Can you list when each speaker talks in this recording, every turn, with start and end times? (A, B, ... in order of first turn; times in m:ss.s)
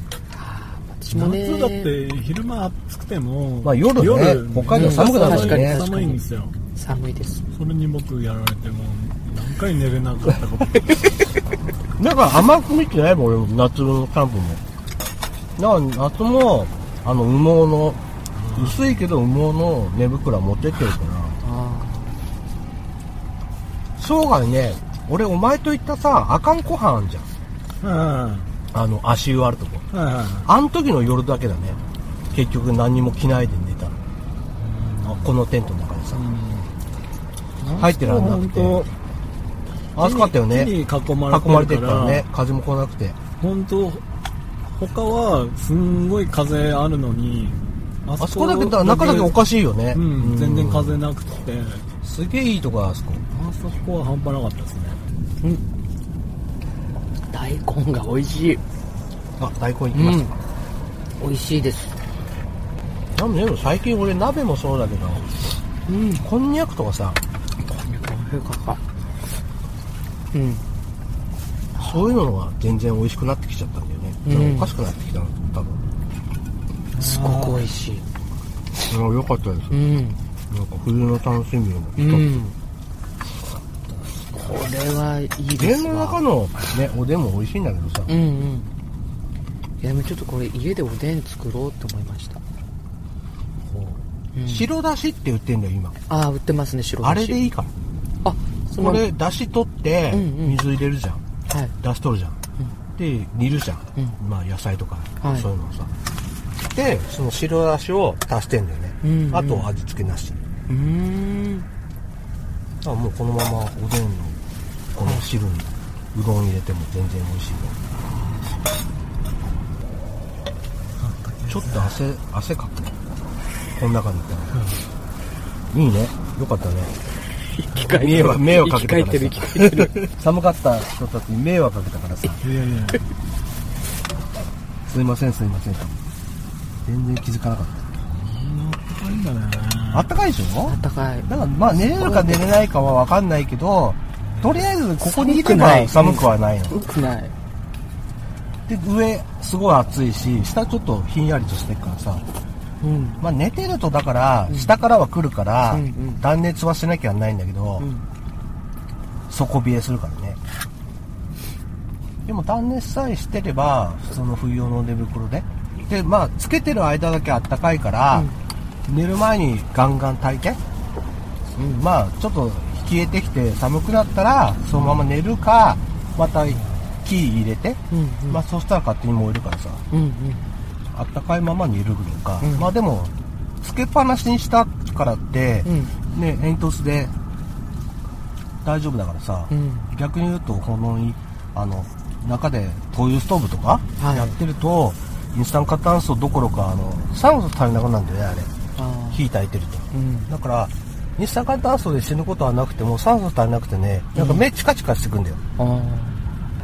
0:00.3-0:01.9 A
0:01.1-0:06.5 B
0:03.6-0:05.8 C
0:04.7-0:06.2 A
0:06.7-0:07.4 A
0:07.5-0:11.0 B
0:12.0-0:14.6 C
0:15.6-0:18.0 C
0:18.4-0:19.0 B
0:18.5-0:21.4 C
0:21.4-0:22.1 A
0:24.0-0:27.3 C
0:27.8-0:28.5 B
0:28.7-0:29.8 C
0:29.9-0:30.5 B
0:30.4-0:31.8 C
0:32.3-0:34.0 C
0:34.6-0:35.4 B
0:35.0-0:36.2 C
0:36.1-0:36.7 B
0:37.6-0:37.9 A
0:37.8-0:38.8 C
0:37.9-0:38.9 B
0:40.0-0:40.7 C
0:40.0-0:42.2 B
0:41.3-0:43.2 C
0:43.4-0:44.0 B
0:44.7-0:49.4 B
0:48.2-0:51.0 C
0:49.9-0:51.8 B
0:52.0-0:53.2 C
0:53.3-0:55.0 B
0:57.3-0:58.6 A
0:59.4-1:00.3 C
0:59.9-1:00.3 A
1:01.2-1:01.9 A
1:03.1-1:05.4 C
1:05.9-1:06.2 A
1:06.2-1:07.2 C
1:07.7-1:08.8 A
1:10.3-1:10.6 A
1:11.7-1:12.0 A
1:11.8-1:15.8 C
1:14.2-1:14.7 A
1:16.9-1:17.7 B
1:17.0-1:18.0 A
1:18.9-1:19.8 C
1:19.7-1:20.2 A
1:20.5-1:22.3 C
1:22.0-1:22.5 A
1:24.3-1:26.2 A
1:25.6-1:28.1 C
1:28.1-1:28.7 A
1:29.8-1:32.4 A
1:33.7-1:36.0 C
1:34.3-1:34.6 A
1:36.1-1:37.4 A
1:37.0-1:37.7 C
1:38.2-1:39.0 A
1:38.8-1:41.2 C
1:40.1-1:40.6 A
1:41.8-1:42.4 C
1:43.0-1:45.9 C
1:45.2-1:45.5 A
1:46.7-1:50.4 C
1:49.0-1:49.7 A
1:50.7-1:51.6 A
1:52.8-1:54.4 C
1:54.9-1:57.8 C
2:01.0-2:01.9 B
2:01.5-2:02.9 C
2:03.8-2:04.6 C
2:05.7-2:06.9 C
2:07.5-2:10.0 A
2:07.8-2:12.4 C
2:12.4-2:13.0 B
2:14.9-2:16.0 C
2:16.8-2:18.0 C
2:18.1-2:20.1 B
2:19.9-2:26.8 C
2:20.7-2:22.5 A
2:24.2-2:24.7 B
2:25.0-2:27.3 A
2:28.7-2:32.2 C
2:32.8-2:33.2 A
2:33.2-2:37.8 C
2:35.7-2:36.2 A
2:39.3-2:40.4 C
2:42.2-2:48.3 C
2:48.8-2:50.6 C
2:51.6-2:51.8 A
2:51.8-2:59.8 C
2:57.9-2:58.4 A
2:59.9-3:00.4 A
3:00.9-3:07.1 C
3:02.4-3:02.7 A
3:05.6-3:05.9 A
3:08.6-3:18.5 C
3:09.5-3:09.9 A
3:14.0-3:14.4 A
3:18.8-3:19.2 A
3:19.1-3:25.4 C
3:19.9-3:20.3 A
3:24.1-3:24.4 A
3:25.6-3:26.2 A